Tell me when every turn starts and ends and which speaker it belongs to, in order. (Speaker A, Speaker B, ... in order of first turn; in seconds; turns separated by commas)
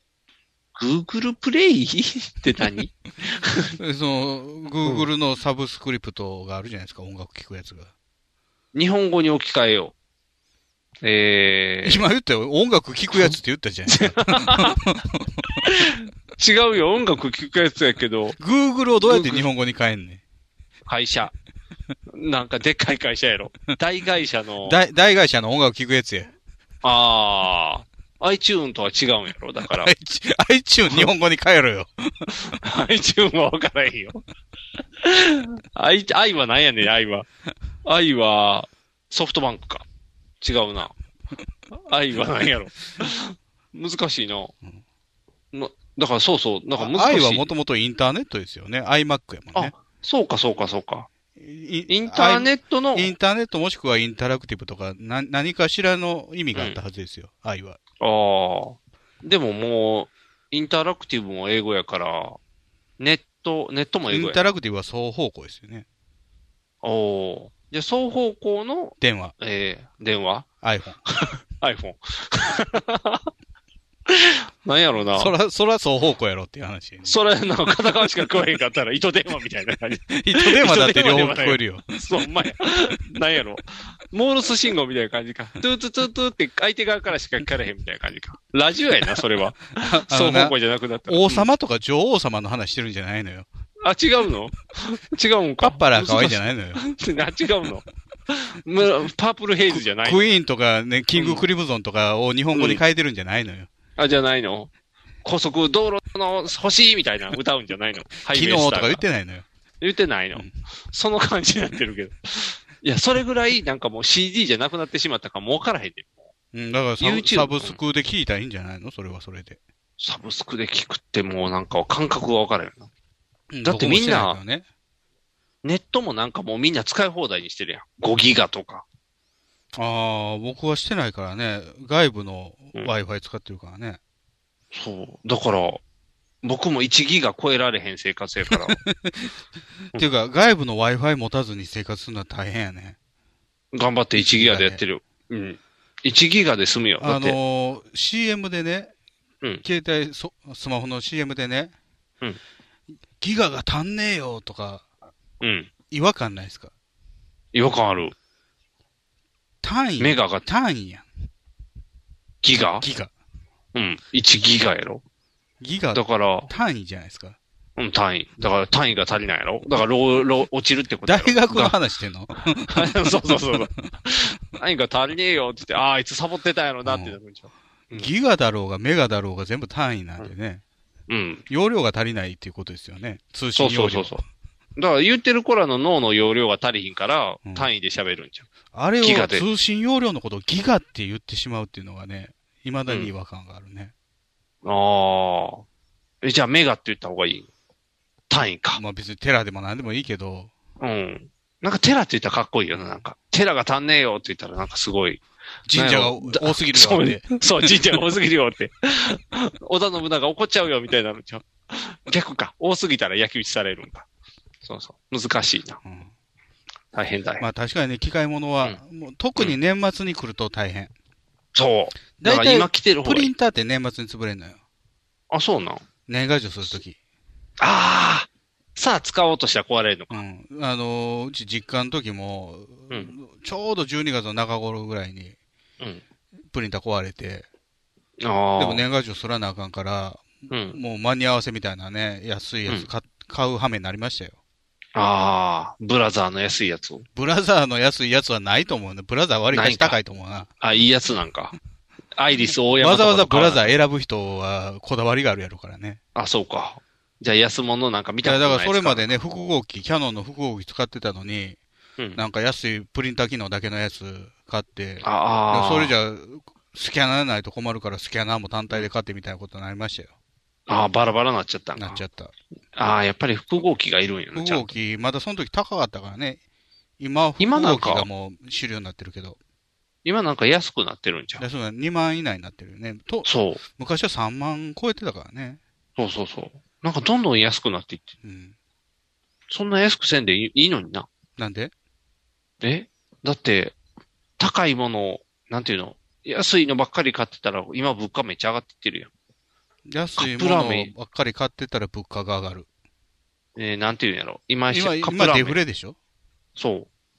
Speaker A: 0.8-3.7, Speaker B: 3.8-7.9, Speaker A: 8.7-9.9, Speaker A: 11.0-12.0, Speaker B: 11.8-15.4, Speaker A: 13.9-14.8, Speaker A: 15.6-18.4, Speaker B: 18.4-20.2, Speaker A: 19.0-19.4, Speaker A: 20.9-21.3, Speaker A: 22.1-24.8, Speaker B: 24.6-26.3, Speaker A: 26.8-29.9, Speaker B: 29.7-32.3, Speaker A: 32.3-34.2, Speaker A: 35.0-37.2, Speaker A: 37.8-39.8, Speaker A: 40.4-40.9, Speaker A: 41.7-44.5, Speaker A: 45.5-47.5, Speaker B: 46.8-49.7, Speaker A: 49.5-51.1, Speaker B: 51.4-57.8, Speaker A: 51.9-53.1, Speaker A: 56.5-56.8, Speaker A: 58.0-62.4, Speaker A: 63.0-64.5, Speaker B: 64.1-65.8, Speaker A: 66.8-70.5, Speaker B: 69.0-69.3, Speaker B: 70.6-71.0, Speaker A: 71.2-73.2, Speaker A: 74.1-75.3, Speaker B: 75.2-77.2, Speaker A: 77.0-91.5, Speaker B: 80.1-81.9, Speaker B: 89.8-93.5, Speaker A: 93.8-100.2, Speaker B: 95.6-96.8, Speaker B: 99.7-103.7, Speaker A: 101.1-101.4, Speaker A: 102.5-102.8, Speaker A: 104.0-104.7, Speaker A: 105.2-109.0, Speaker B: 108.2-109.5, Speaker A: 109.8-116.3, Speaker B: 116.5-119.6, Speaker A: 117.0-117.8, Speaker A: 120.0-122.9, Speaker B: 123.5-124.7, Speaker A: 123.6-124.4, Speaker A: 125.6-128.8, Speaker B: 129.7-134.0, Speaker A: 134.7-135.8, Speaker A: 136.4-138.8, Speaker B: 138.5-139.3, Speaker B: 139.9-142.9, Speaker A: 143.7-147.4, Speaker B: 144.1-144.8, Speaker B: 147.0-148.9, Speaker B: 149.6-151.7, Speaker B: 153.2-154.8, Speaker A: 155.4-155.7, Speaker B: 155.9-156.7, Speaker A: 157.5-158.1, Speaker B: 159.6-161.1, Speaker A: 160.0-160.4, Speaker A: 162.4-162.8, Speaker B: 162.8-163.1, Speaker A: 163.7-165.0, Speaker B: 165.6-167.4, Speaker A: 165.9-166.5, Speaker A: 167.8-171.8, Speaker B: 171.1-173.3, Speaker A: 172.7-178.1, Speaker B: 176.8-177.2, Speaker B: 177.9-180.6, Speaker A: 181.1-181.4, Speaker B: 181.5-184.2, Speaker A: 183.6-184.2, Speaker A: 184.8-188.5, Speaker B: 187.4-187.7, Speaker B: 188.7-193.9, Speaker A: 189.0-189.4, Speaker A: 194.6-195.6, Speaker A: 196.2-197.5, Speaker A: 198.3-198.8, Speaker B: 198.7-200.5, Speaker A: 200.8-205.2, Speaker B: 202.7-203.0, Speaker B: 205.7-207.7, Speaker A: 205.7-214.0, Speaker A: 214.6-215.8, Speaker B: 215.8-216.1, Speaker A: 216.9-217.5, Speaker B: 217.4-220.9, Speaker A: 221.5-223.3, Speaker B: 222.2-224.6, Speaker A: 225.3-225.8, Speaker B: 226.1-226.9, Speaker A: 227.6-230.1, Speaker B: 230.1-235.3, Speaker B: 236.5-237.5, Speaker A: 238.2-238.8, Speaker B: 238.6-244.3, Speaker A: 240.5-240.8, Speaker A: 244.9-247.1, Speaker B: 247.2-250.5, Speaker A: 249.5-250.0, Speaker A: 250.6-251.5, Speaker A: 252.2-253.8, Speaker B: 252.8-256.0, Speaker A: 256.1-259.5, Speaker B: 258.2-261.6, Speaker B: 262.1-270.1, Speaker A: 265.0-265.9, Speaker A: 270.7-272.0, Speaker B: 271.8-272.3, Speaker A: 272.8-274.7, Speaker B: 274.3-276.4, Speaker B: 277.0-279.4, Speaker A: 277.4-278.1, Speaker A: 280.0-281.4, Speaker B: 281.4-285.6, Speaker A: 283.2-283.6, Speaker A: 286.0-288.1, Speaker B: 288.2-288.5, Speaker A: 289.5-291.1, Speaker B: 291.4-291.7, Speaker A: 292.6-293.7, Speaker A: 294.4-299.1, Speaker B: 299.9-302.7, Speaker A: 300.2-300.9, Speaker A: 303.6-305.6, Speaker B: 304.7-305.9, Speaker A: 306.6-306.9